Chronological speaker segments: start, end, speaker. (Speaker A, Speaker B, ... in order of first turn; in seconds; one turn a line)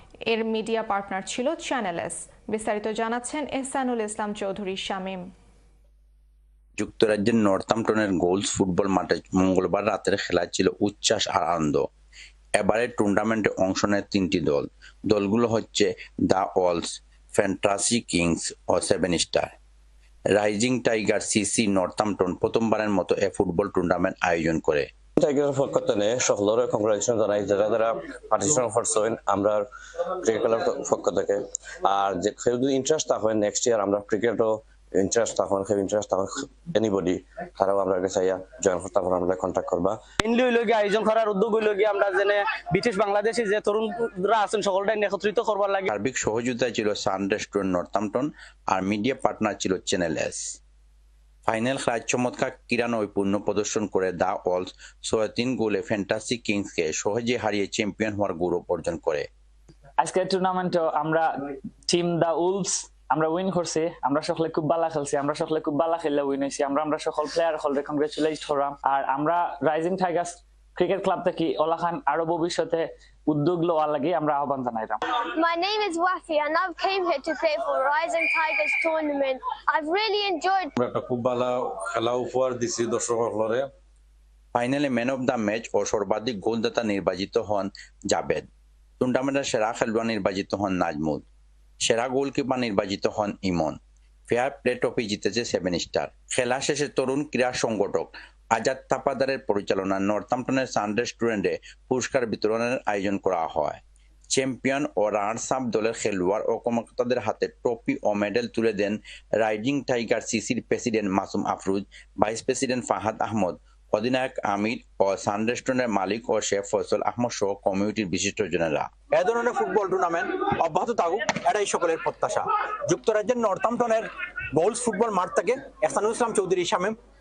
Speaker A: 0.3-5.3
Speaker B: 6.8-11.8
Speaker B: 12.6-19.5
Speaker B: 20.3-24.9
Speaker C: 25.2-29.7
Speaker C: 30.2-40.0
Speaker D: 40.2-45.9
Speaker B: 45.9-50.5
Speaker B: 51.5-59.3
Speaker E: 60.0-61.3
Speaker E: 61.9-75.0
Speaker F: 75.2-80.7
Speaker G: 81.0-83.0
Speaker B: 84.5-88.5
Speaker B: 89.0-91.2
Speaker B: 91.8-93.8
Speaker B: 94.3-103.8
Speaker B: 104.3-119.0
Speaker H: 119.2-124.0
Speaker H: 124.6-126.9